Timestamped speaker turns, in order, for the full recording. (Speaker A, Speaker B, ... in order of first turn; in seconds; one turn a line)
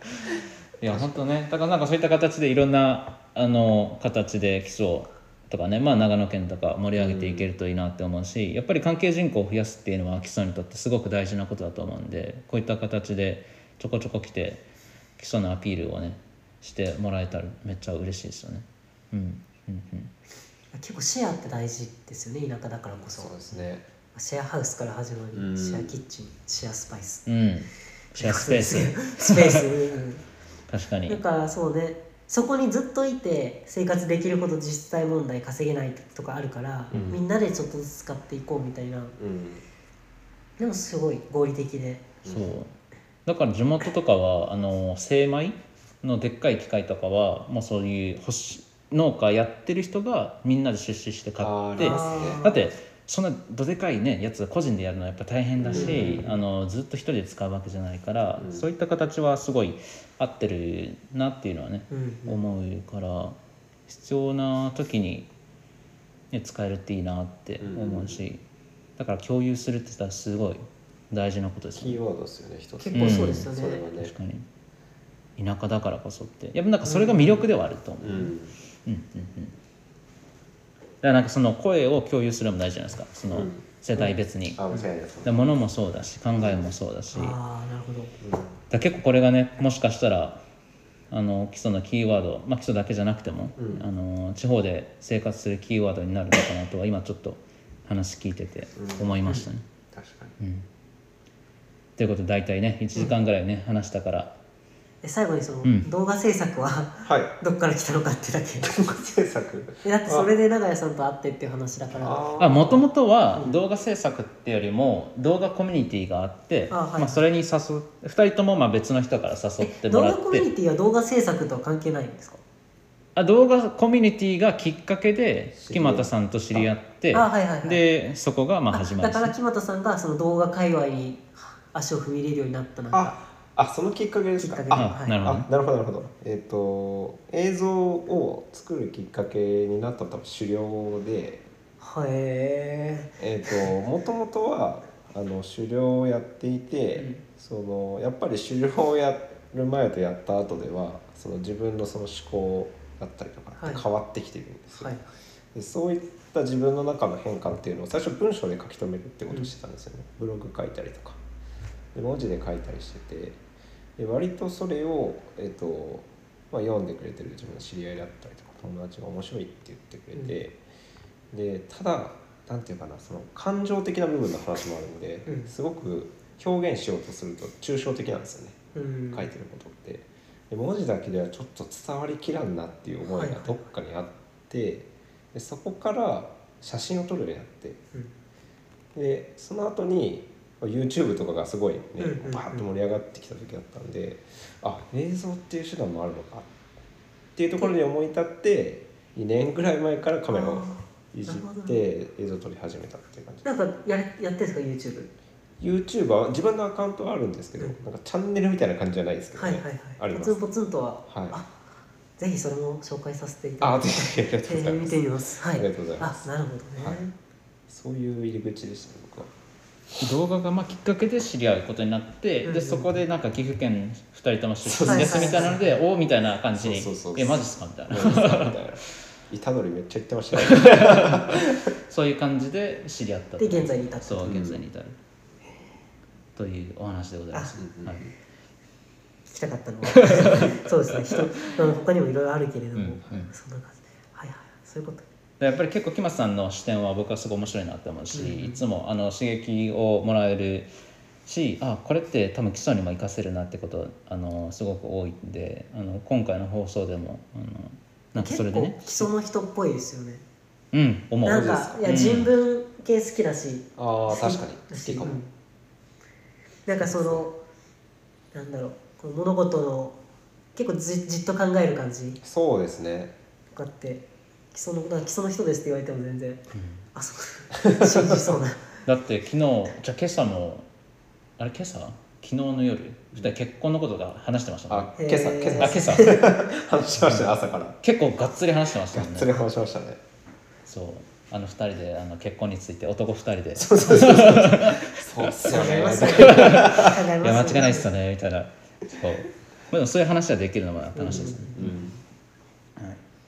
Speaker A: 0.2-14.7
Speaker B: 0.8-1.2
Speaker B: 7.0-7.5
Speaker A: 15.2-20.1
Speaker C: 20.7-23.3
Speaker B: 23.0-23.9
Speaker C: 24.1-27.3
Speaker B: 25.3-26.0
Speaker A: 27.3-29.7
Speaker C: 28.2-30.2
Speaker A: 30.7-31.2
Speaker C: 31.1-39.1
Speaker B: 36.9-37.2
Speaker B: 39.2-39.6
Speaker C: 40.6-42.1
Speaker B: 42.2-42.5
Speaker A: 42.3-42.7
Speaker A: 43.3-63.4
Speaker B: 51.4-52.5
Speaker C: 51.8-52.6
Speaker B: 55.6-56.4
Speaker C: 55.7-56.2
Speaker B: 58.4-58.7
Speaker C: 61.9-62.4
Speaker A: 63.9-65.3
Speaker A: 66.3-68.4
Speaker B: 67.6-68.2
Speaker A: 69.0-72.0
Speaker B: 71.8-74.1
Speaker C: 72.8-73.8
Speaker A: 72.9-74.5
Speaker A: 75.4-79.6
Speaker C: 76.8-77.4
Speaker B: 78.0-78.6
Speaker A: 81.0-87.4
Speaker B: 83.3-83.7
Speaker B: 84.6-85.3
Speaker B: 86.4-86.7
Speaker C: 87.1-88.2
Speaker B: 88.2-88.6
Speaker A: 88.7-90.4
Speaker A: 91.1-99.6
Speaker B: 93.6-93.9
Speaker B: 98.8-99.4
Speaker B: 99.9-100.4
Speaker A: 100.4-100.7
Speaker A: 102.0-104.3
Speaker C: 105.0-108.8
Speaker A: 105.6-105.9
Speaker B: 107.0-107.3
Speaker B: 108.6-110.3
Speaker C: 109.8-112.8
Speaker B: 111.9-112.8
Speaker A: 112.4-120.5
Speaker C: 116.7-117.2
Speaker C: 119.6-122.4
Speaker A: 123.2-129.3
Speaker B: 125.6-126.7
Speaker C: 127.1-127.8
Speaker C: 128.7-133.1
Speaker B: 132.9-141.4
Speaker C: 134.4-135.2
Speaker A: 134.8-135.5
Speaker C: 141.8-143.7
Speaker B: 143.2-154.9
Speaker C: 147.0-147.2
Speaker C: 153.6-153.8
Speaker C: 154.8-155.1
Speaker B: 155.5-161.2
Speaker B: 161.9-163.4
Speaker B: 164.0-170.6
Speaker B: 171.3-178.6
Speaker C: 175.3-175.5
Speaker C: 178.8-179.3
Speaker B: 179.1-187.8
Speaker C: 183.1-183.7
Speaker B: 188.9-196.5
Speaker C: 192.0-192.7
Speaker B: 197.4-203.5
Speaker C: 200.3-201.8
Speaker C: 203.4-205.1
Speaker B: 205.6-210.4
Speaker C: 209.4-211.5
Speaker B: 211.1-211.4
Speaker C: 212.2-217.1
Speaker B: 213.6-216.2
Speaker B: 216.8-217.1
Speaker B: 217.7-219.3
Speaker A: 220.0-228.6
Speaker C: 222.4-222.9
Speaker B: 224.6-225.6
Speaker C: 224.8-225.6
Speaker B: 226.6-231.7
Speaker A: 230.4-235.0
Speaker C: 233.4-234.3
Speaker B: 234.2-234.6
Speaker A: 236.4-238.0
Speaker B: 237.6-238.1
Speaker C: 239.3-245.1
Speaker A: 239.9-240.6
Speaker A: 242.8-243.3
Speaker A: 245.4-250.7
Speaker C: 248.1-248.6
Speaker A: 251.3-259.1
Speaker C: 258.2-260.2
Speaker A: 260.7-262.3
Speaker C: 261.2-265.3
Speaker B: 261.3-262.2
Speaker B: 263.8-265.2
Speaker C: 266.7-267.4
Speaker B: 266.8-267.2
Speaker C: 268.3-270.0
Speaker C: 270.6-272.2
Speaker B: 272.2-273.1
Speaker C: 273.5-276.4
Speaker A: 276.6-276.8
Speaker C: 276.9-278.7
Speaker B: 277.6-278.3
Speaker A: 278.9-280.7
Speaker A: 281.4-285.0
Speaker B: 284.7-287.8
Speaker C: 285.0-286.3
Speaker A: 285.6-286.1
Speaker A: 287.0-287.3
Speaker A: 287.8-289.3
Speaker B: 288.9-290.0
Speaker A: 290.7-301.7
Speaker B: 293.6-297.0
Speaker C: 295.5-297.9
Speaker C: 300.9-301.6
Speaker B: 301.1-302.0